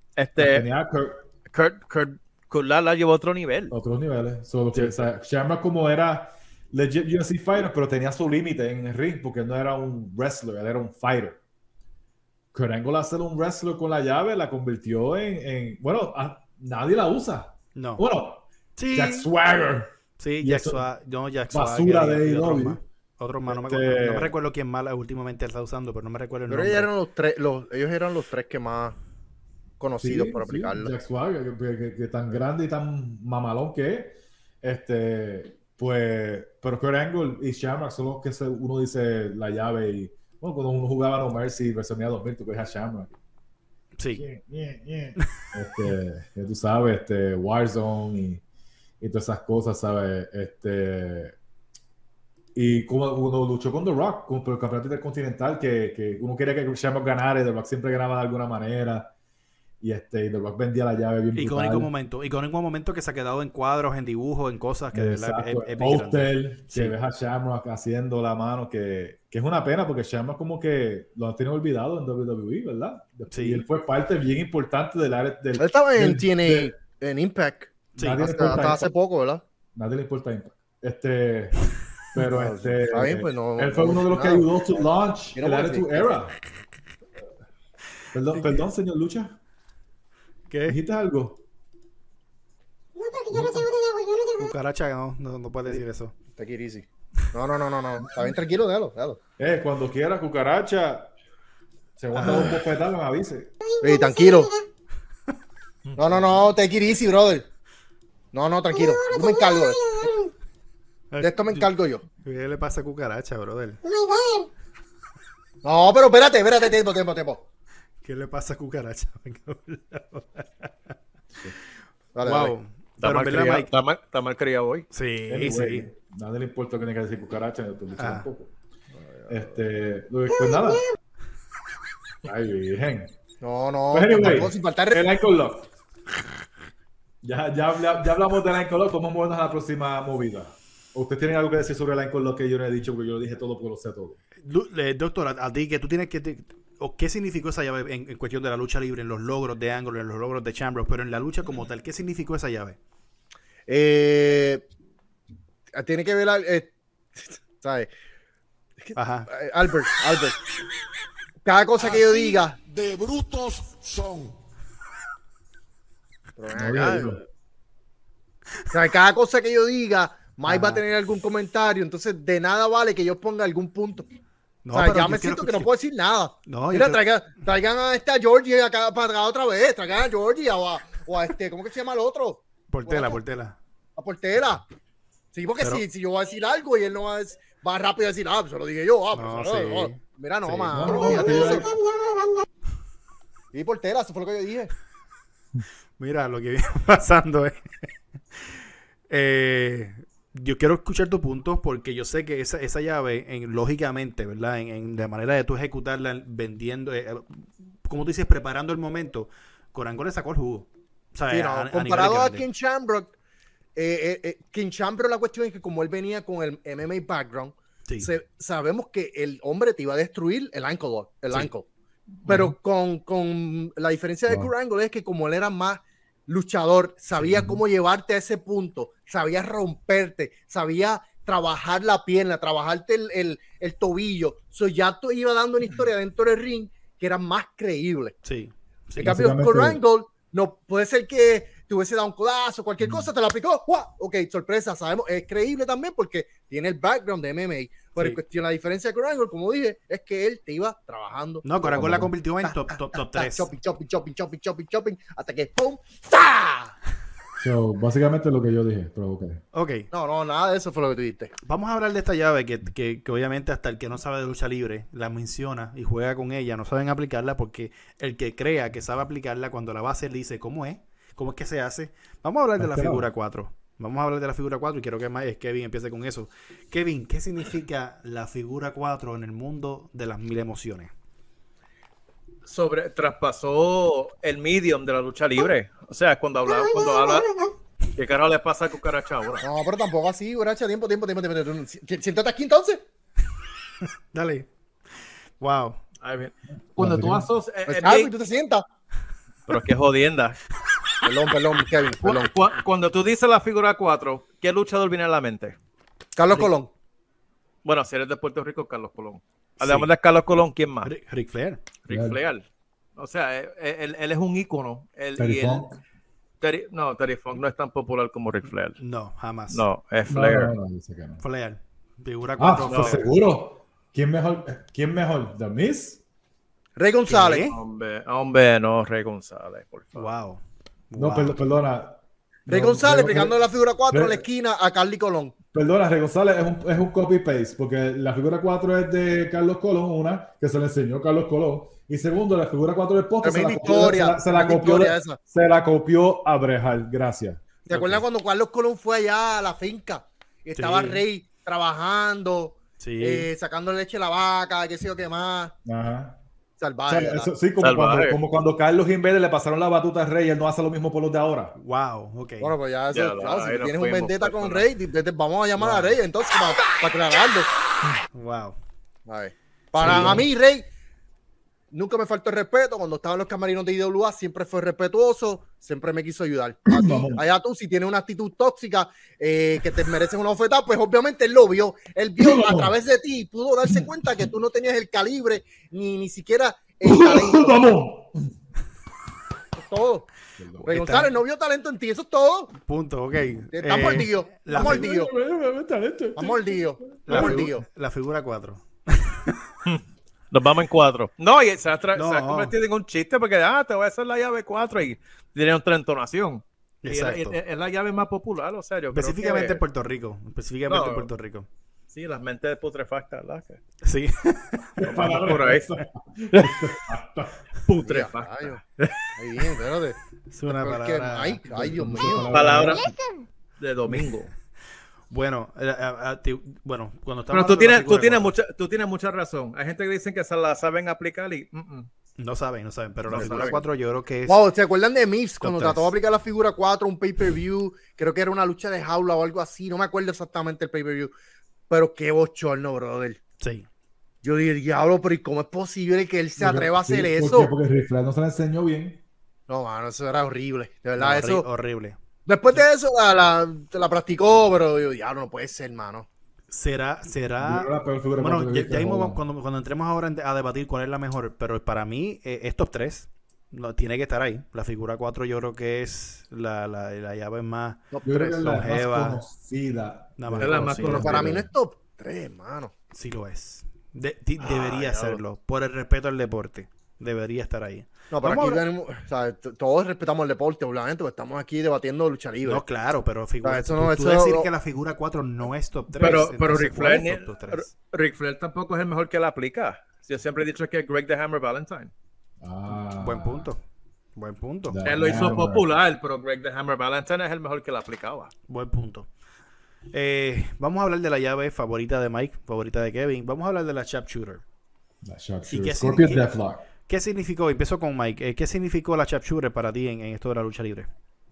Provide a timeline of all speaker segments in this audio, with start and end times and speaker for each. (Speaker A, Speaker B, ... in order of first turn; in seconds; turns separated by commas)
Speaker A: 0.2-0.7, Speaker B: 0.4-1.2, Speaker A: 1.5-3.7, Speaker B: 3.7-11.4, Speaker C: 4.7-5.0, Speaker B: 12.5-20.8, Speaker C: 17.8-18.0, Speaker C: 18.8-19.3, Speaker C: 20.2-26.9, Speaker B: 21.5-22.8, Speaker B: 23.5-24.3, Speaker D: 26.5-29.0, Speaker D: 29.8-30.9, Speaker B: 30.0-43.2, Speaker C: 44.0-44.2, Speaker B: 44.1-48.4, Speaker B: 49.0-51.4, Speaker B: 52.5-59.1, Speaker B: 59.8-61.9, Speaker C: 61.3-66.9, Speaker B: 64.9-76.7, Speaker C: 73.3-73.7, Speaker D: 75.6-79.4, Speaker C: 78.0-78.2, Speaker B: 78.0-78.9, Speaker B: 79.8-81.6, Speaker B: 82.1-86.4, Speaker D: 82.2-84.5, Speaker D: 85.3-86.1, Speaker B: 88.1-89.4, Speaker C: 90.5-90.8, Speaker B: 90.7-91.4, Speaker B: 93.3-93.7, Speaker C: 94.3-96.2, Speaker D: 96.4-99.2, Speaker B: 99.4-101.1, Speaker B: 102.0-103.5, Speaker C: 102.1-102.5, Speaker D: 102.2-102.5, Speaker D: 103.8-104.5, Speaker D: 106.0-107.5, Speaker D: 108.3-110.2, Speaker C: 111.1-111.7, Speaker D: 111.2-112.0, Speaker C: 112.2-113.8, Speaker D: 115.6-117.4, Speaker C: 118.0-120.7, Speaker D: 122.2-122.5, Speaker C: 122.2-123.7, Speaker A: 123.0-124.9, Speaker C: 124.9-125.9, Speaker B: 125.3-128.5, Speaker C: 128.0-128.3, Speaker D: 129.0-129.4, Speaker B: 129.3-130.8, Speaker B: 132.2-133.1, Speaker D: 133.4-135.1, Speaker B: 133.9-135.7, Speaker B: 137.2-144.2, Speaker C: 144.4-152.8, Speaker D: 153.7-154.7, Speaker D: 155.7-157.9, Speaker D: 158.8-160.4, Speaker C: 158.9-159.3, Speaker D: 161.4-162.6, Speaker E: 161.8-164.3, Speaker D: 166.4-167.2, Speaker B: 166.5-167.2, Speaker D: 168.7-174.1, Speaker C: 170.5-170.8, Speaker C: 174.7-175.7, Speaker D: 174.7-183.2, Speaker C: 176.5-177.0, Speaker C: 182.7-183.6, Speaker D: 184.0-184.7, Speaker D: 185.3-191.7, Speaker C: 189.1-191.2, Speaker B: 190.7-191.7, Speaker D: 193.5-194.7, Speaker C: 196.0-197.9, Speaker C: 199.1-212.5, Speaker D: 211.3-213.1, Speaker D: 213.8-221.7, Speaker D: 222.3-238.2, Speaker B: 222.3-222.5, Speaker B: 227.2-227.6, Speaker C: 238.2-239.3, Speaker B: 239.0-239.8, Speaker D: 239.0-256.7, Speaker B: 242.8-243.1, Speaker C: 251.4-253.5, Speaker B: 251.7-252.1, Speaker B: 257.4-259.4, Speaker C: 259.5-259.9, Speaker D: 259.9-261.3, Speaker C: 261.4-280.9, Speaker B: 272.6-273.1, Speaker A: 282.5-287.3, Speaker A: 287.9-289.5, Speaker D: 289.4-292.8, Speaker C: 294.1-294.5, Speaker C: 295.4-295.8, Speaker A: 296.0-298.1, Speaker B: 296.8-297.3, Speaker D: 297.7-298.6, Speaker A: 299.5-300.4, Speaker D: 301.0-302.3, Speaker A: 302.0-305.6, Speaker D: 306.2-306.7, Speaker A: 307.6-310.9, Speaker C: 309.6-309.9, Speaker C: 310.8-311.6, Speaker A: 311.9-312.4, Speaker B: 311.9-312.2, Speaker A: 313.0-315.7, Speaker B: 315.2-315.8, Speaker A: 316.4-318.8, Speaker C: 318.8-319.6, Speaker A: 319.5-320.5, Speaker B: 320.1-321.2, Speaker C: 321.2-323.1, Speaker B: 322.4-326.0, Speaker A: 322.7-323.0, Speaker D: 326.8-327.5, Speaker C: 327.1-327.6, Speaker A: 327.5-330.1, Speaker C: 329.9-331.4, Speaker B: 331.0-334.2, Speaker D: 332.5-335.4, Speaker B: 335.5-348.0, Speaker D: 343.2-345.2, Speaker D: 347.7-355.6, Speaker C: 350.6-351.0, Speaker C: 352.8-353.3, Speaker B: 355.7-356.2, Speaker D: 356.6-357.3, Speaker B: 356.9-361.6, Speaker A: 357.6-358.2, Speaker C: 361.6-362.5, Speaker D: 362.4-367.5, Speaker A: 362.9-364.7, Speaker C: 365.6-366.0, Speaker C: 368.1-368.6, Speaker D: 369.1-370.7, Speaker B: 369.8-370.3, Speaker C: 369.8-370.2, Speaker D: 371.7-387.7, Speaker B: 376.7-377.2, Speaker B: 382.2-382.8, Speaker B: 386.8-388.2, Speaker D: 389.6-390.1, Speaker B: 390.4-390.7, Speaker C: 390.6-391.1, Speaker D: 390.7-392.5, Speaker C: 392.6-394.9, Speaker D: 393.5-395.1, Speaker B: 394.5-397.5, Speaker D: 396.2-397.6, Speaker C: 397.1-399.4, Speaker A: 399.6-409.6, Speaker C: 401.9-402.6, Speaker C: 406.8-407.4, Speaker C: 408.9-411.5, Speaker A: 410.7-411.1, Speaker A: 411.9-413.6, Speaker C: 413.8-415.2, Speaker B: 414.8-417.4, Speaker A: 414.8-415.7, Speaker A: 417.7-419.1, Speaker D: 417.8-418.6, Speaker D: 419.2-422.3, Speaker C: 420.3-421.4, Speaker B: 421.5-422.9, Speaker A: 422.3-422.9, Speaker A: 423.6-424.3, Speaker C: 425.1-428.3, Speaker A: 427.3-431.9, Speaker C: 432.2-434.4, Speaker A: 433.1-433.6, Speaker D: 433.1-433.6, Speaker D: 434.3-441.1, Speaker C: 435.4-435.9, Speaker D: 441.7-443.2, Speaker C: 443.4-443.7, Speaker D: 444.2-447.5, Speaker B: 446.4-449.0, Speaker D: 449.5-451.5, Speaker C: 451.0-452.0, Speaker D: 452.3-456.1, Speaker C: 456.5-469.2, Speaker B: 457.4-459.2, Speaker D: 467.9-468.6, Speaker B: 468.0-471.5, Speaker C: 470.2-471.3, Speaker A: 470.4-471.2, Speaker D: 470.9-472.7, Speaker C: 472.9-478.6, Speaker A: 474.4-475.2, Speaker D: 478.1-482.6, Speaker C: 482.4-487.7, Speaker D: 483.4-484.5, Speaker A: 486.0-491.9, Speaker B: 492.4-493.5, Speaker C: 492.7-493.6, Speaker C: 494.2-495.4, Speaker B: 494.7-495.7, Speaker A: 494.8-498.3, Speaker C: 498.5-499.1, Speaker C: 499.9-504.4, Speaker B: 505.0-506.6, Speaker C: 505.5-506.3, Speaker C: 506.9-510.9